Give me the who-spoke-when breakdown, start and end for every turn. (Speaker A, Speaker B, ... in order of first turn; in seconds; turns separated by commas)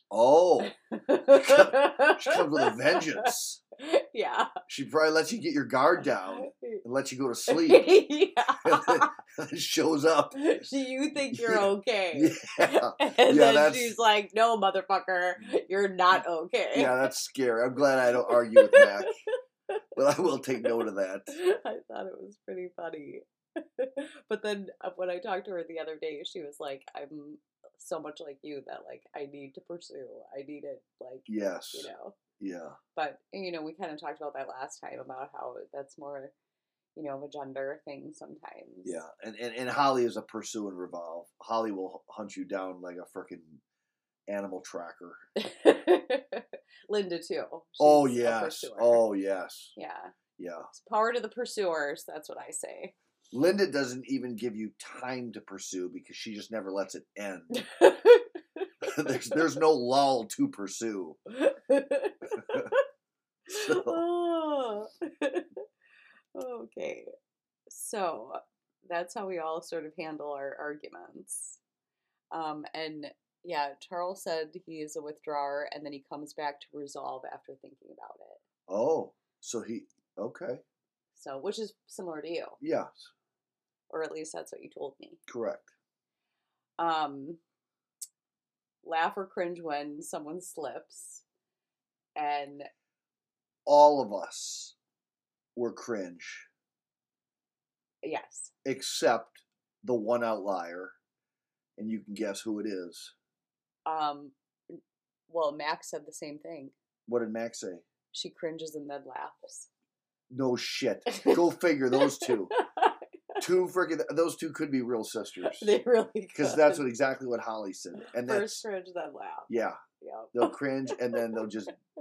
Speaker A: 0.1-0.7, Speaker B: 0.6-4.5, Speaker A: 1.3-3.6, Speaker A: 4.7-7.9, Speaker B: 6.0-6.8, Speaker B: 7.5-9.1, Speaker A: 8.6-13.9, Speaker B: 10.3-17.1, Speaker A: 16.7-19.1, Speaker B: 18.1-19.1, Speaker A: 19.9-21.4, Speaker B: 21.3-32.2, Speaker A: 31.3-32.8, Speaker B: 33.0-36.3, Speaker B: 37.0-39.0, Speaker A: 38.8-43.6, Speaker A: 44.3-45.2, Speaker B: 45.4-49.1, Speaker A: 47.8-49.7, Speaker B: 49.8-50.1, Speaker A: 50.4-50.7, Speaker B: 50.7-52.9, Speaker A: 53.3-57.5, Speaker B: 57.5-58.7, Speaker A: 58.8-61.2, Speaker B: 61.3-62.8, Speaker A: 63.5-64.0, Speaker B: 63.5-65.7, Speaker B: 66.3-67.1, Speaker B: 67.7-71.6, Speaker B: 72.3-78.4, Speaker A: 78.7-80.6, Speaker B: 81.1-82.6, Speaker A: 82.6-83.1, Speaker B: 83.9-85.2, Speaker A: 85.3-85.7, Speaker B: 86.8-87.4, Speaker B: 88.8-91.2, Speaker B: 92.2-92.7, Speaker A: 93.7-94.8, Speaker A: 95.6-96.5, Speaker B: 98.0-98.5, Speaker A: 98.7-101.0, Speaker A: 101.8-103.1, Speaker B: 103.9-106.8, Speaker A: 107.1-107.9, Speaker B: 108.1-109.7, Speaker A: 110.3-112.5, Speaker B: 111.1-111.4, Speaker B: 112.0-113.4, Speaker A: 113.4-115.7, Speaker B: 115.5-116.8, Speaker A: 116.3-118.7, Speaker B: 118.0-121.5, Speaker A: 119.5-119.8, Speaker A: 120.3-121.8